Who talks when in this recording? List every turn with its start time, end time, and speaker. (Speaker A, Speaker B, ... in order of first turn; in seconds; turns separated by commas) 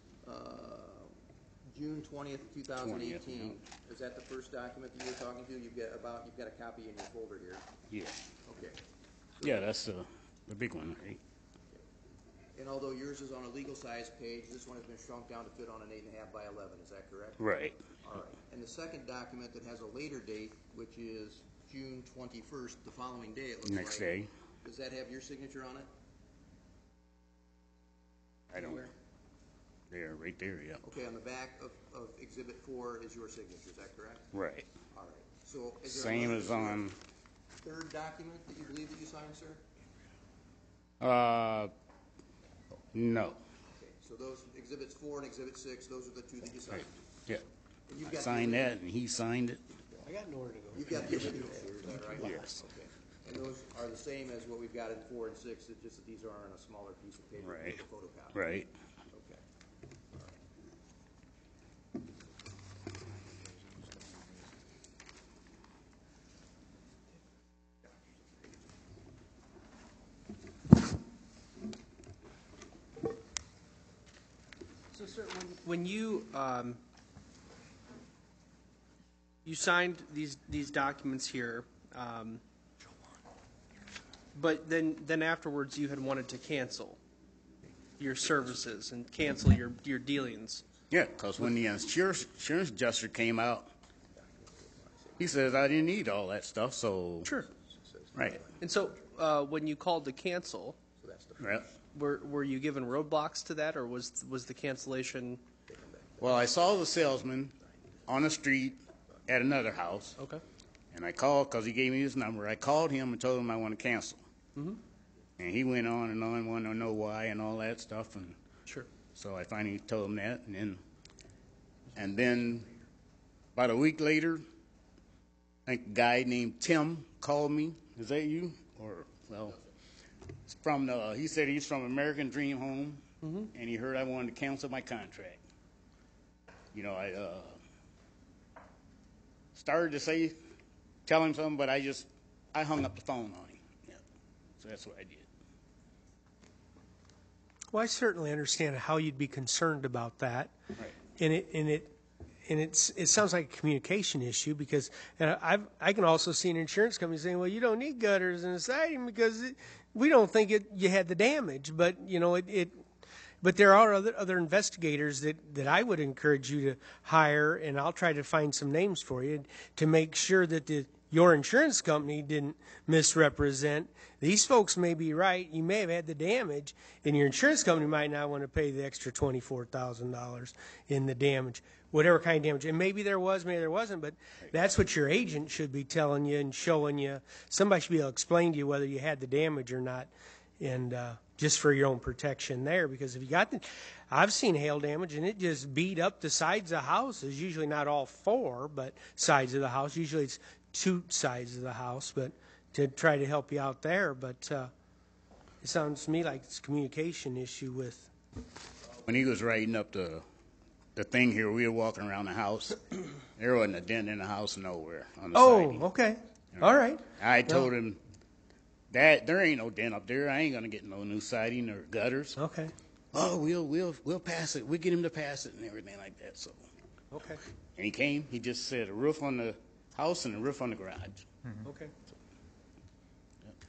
Speaker A: 0.2-1.1, Speaker A: 1.7-7.7, Speaker B: 2.8-3.6, Speaker B: 7.9-8.2, Speaker A: 8.5-8.8, Speaker A: 9.4-9.7, Speaker B: 9.4-11.2, Speaker A: 12.6-25.9, Speaker B: 17.4-17.9, Speaker B: 23.6-24.3, Speaker B: 28.5-28.9, Speaker A: 28.6-28.9, Speaker B: 29.9-30.8, Speaker A: 30.8-34.3, Speaker B: 34.3-34.7, Speaker A: 34.9-36.9, Speaker B: 35.9-37.0, Speaker A: 37.6-39.6, Speaker B: 41.0-41.7, Speaker B: 42.9-43.4, Speaker A: 43.7-47.0, Speaker B: 46.7-47.4, Speaker A: 47.9-48.8, Speaker B: 48.1-49.6, Speaker C: 50.0-51.0, Speaker A: 50.7-58.4, Speaker B: 52.2-52.6, Speaker B: 57.4-57.8, Speaker B: 58.3-58.7, Speaker A: 59.1-59.4, Speaker D: 74.9-76.8, Speaker D: 79.5-82.4, Speaker D: 84.3-87.0, Speaker D: 88.0-90.6, Speaker B: 90.9-93.7, Speaker A: 94.2-95.6, Speaker B: 95.2-97.3, Speaker A: 97.3-98.7, Speaker B: 98.2-98.4, Speaker D: 98.6-100.8, Speaker A: 101.0-101.8, Speaker B: 101.4-101.7, Speaker D: 101.9-105.4, Speaker A: 105.7-106.8, Speaker B: 106.2-107.6, Speaker B: 108.1-110.2, Speaker B: 110.9-114.2, Speaker B: 115.4-118.4, Speaker B: 119.2-120.8, Speaker B: 122.0-122.7, Speaker B: 123.5-124.4, Speaker B: 125.7-129.6, Speaker B: 130.5-135.4, Speaker D: 133.2-133.5, Speaker B: 136.7-137.6, Speaker B: 139.6-140.4, Speaker B: 141.1-144.0, Speaker B: 144.6-145.2, Speaker C: 147.7-150.5, Speaker C: 151.1-151.9, Speaker C: 152.5-162.8, Speaker C: 163.4-204.7, Speaker C: 205.6-208.1, Speaker B: 209.1-210.2, Speaker B: 211.0-215.8, Speaker C: 215.3-217.7, Speaker B: 216.6-218.0, Speaker B: 218.9-222.4, Speaker C: 222.4-222.7, Speaker B: 223.1-226.6, Speaker C: 227.1-227.4, Speaker B: 227.8-231.3, Speaker C: 231.6-231.9